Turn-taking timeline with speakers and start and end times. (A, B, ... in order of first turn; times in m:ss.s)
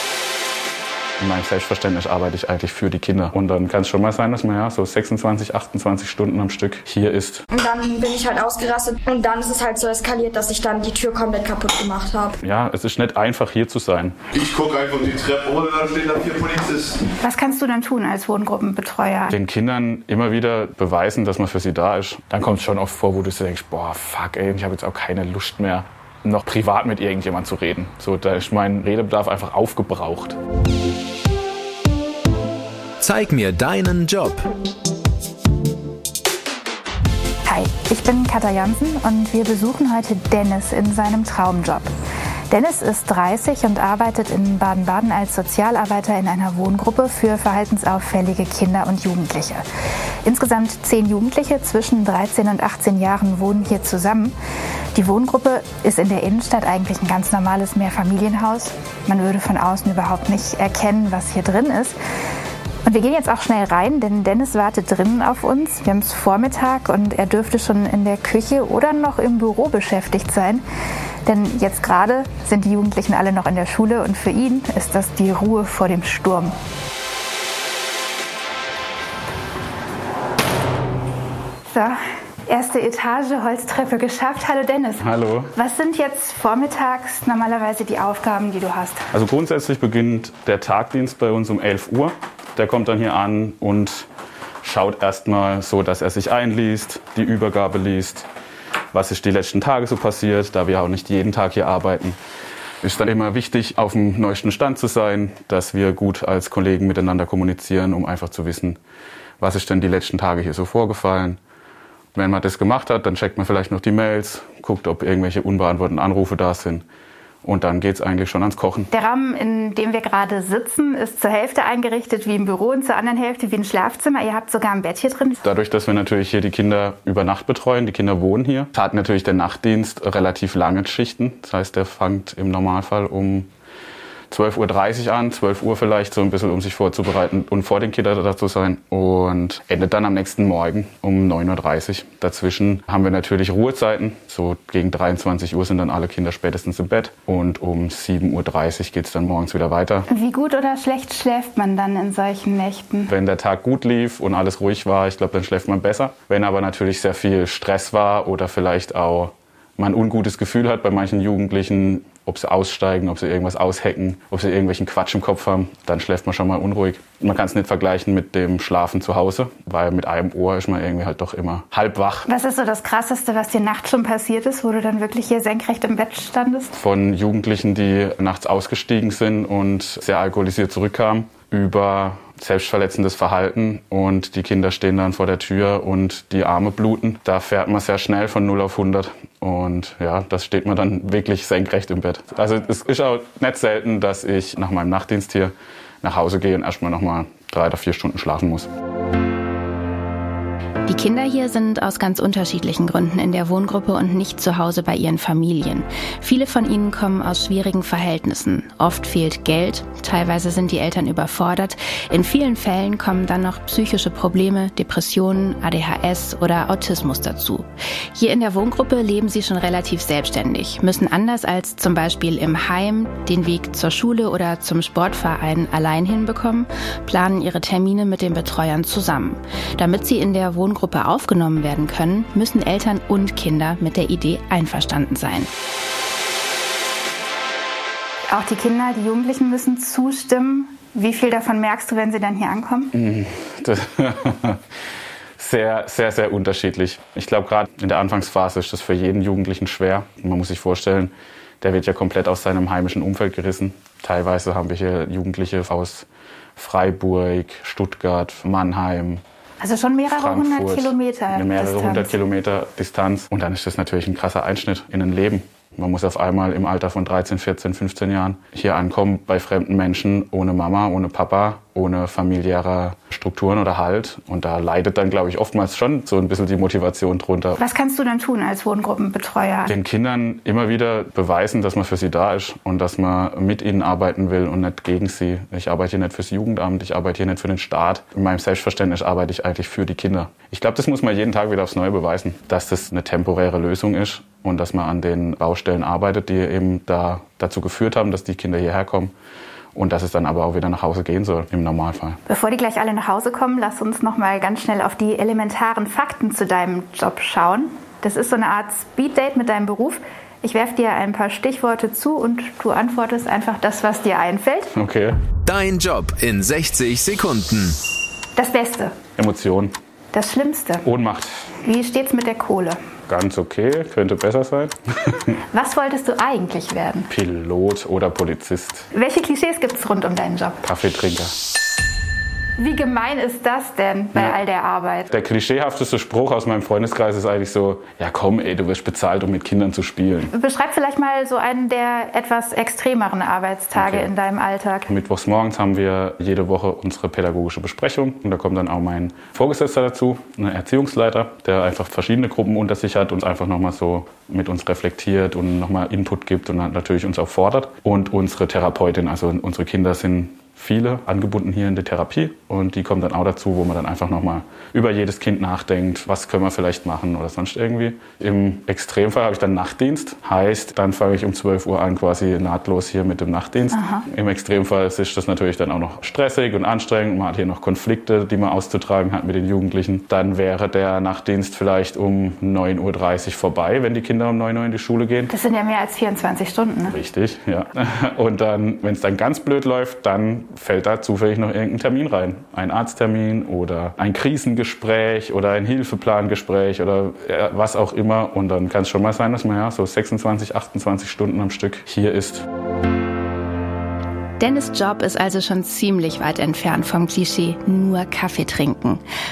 0:01.2-0:07.4 A
0:07.5-0:12.4 B
0:12.4-0:14.2 A
0:14.3-0:17.0 C
0:17.2-0:19.3 D
0:19.3-0:30.4 A
0:33.0-0:34.5 E
0:37.4-0:41.9 D
0:42.5-0:49.6 D
0:50.2-0:54.4 D
0:54.9-1:01.9 D
1:02.8-1:10.6 D
1:11.2-1:16.5 D
1:21.7-1:29.0 D
1:25.0-1:25.5 A
1:29.1-1:34.1 A
1:34.6-1:38.3 A
1:38.9-1:42.2 A
1:42.8-1:48.8 A
1:49.4-1:51.4 A
1:52.1-1:56.8 A
1:57.4-1:58.9 A
1:58.9-2:05.4 D
2:05.4-2:13.5 A
2:14.3-2:30.1 A
2:30.1-2:33.1 D
2:33.1-2:52.3 A
2:52.3-2:56.7 D
2:56.7-3:18.7 A
3:20.9-3:55.5 F
3:58.3-4:02.9 D
4:02.9-4:04.6 A
4:05.4-4:19.2 A
4:19.6-4:22.1 D
4:20.1-4:37.6 A
4:37.6-4:39.7 D
4:39.7-4:59.1 A
4:59.7-5:02.2 A
5:02.3-5:14.7 D
5:14.7-5:15.2 A
5:15.4-5:17.8 E
5:18.4-5:19.0 D
5:19.2-5:19.8 A
5:20.1-5:20.8 D
5:20.8-5:21.4 A
5:21.6-5:22.8 D
5:23.1-5:25.4 A
5:25.5-5:27.1 D
5:27.1-5:28.9 A
5:28.9-5:30.7 D
5:30.6-5:31.3 A
5:32.6-5:35.1 D
5:34.1-5:34.4 A
5:35.1-5:40.3 A
5:40.3-5:44.9 D
5:43.7-5:44.1 A
5:44.9-6:25.3 A
6:13.7-6:14.0 D
6:25.3-6:27.0 D
6:26.9-6:42.5 A
6:44.4-6:49.0 F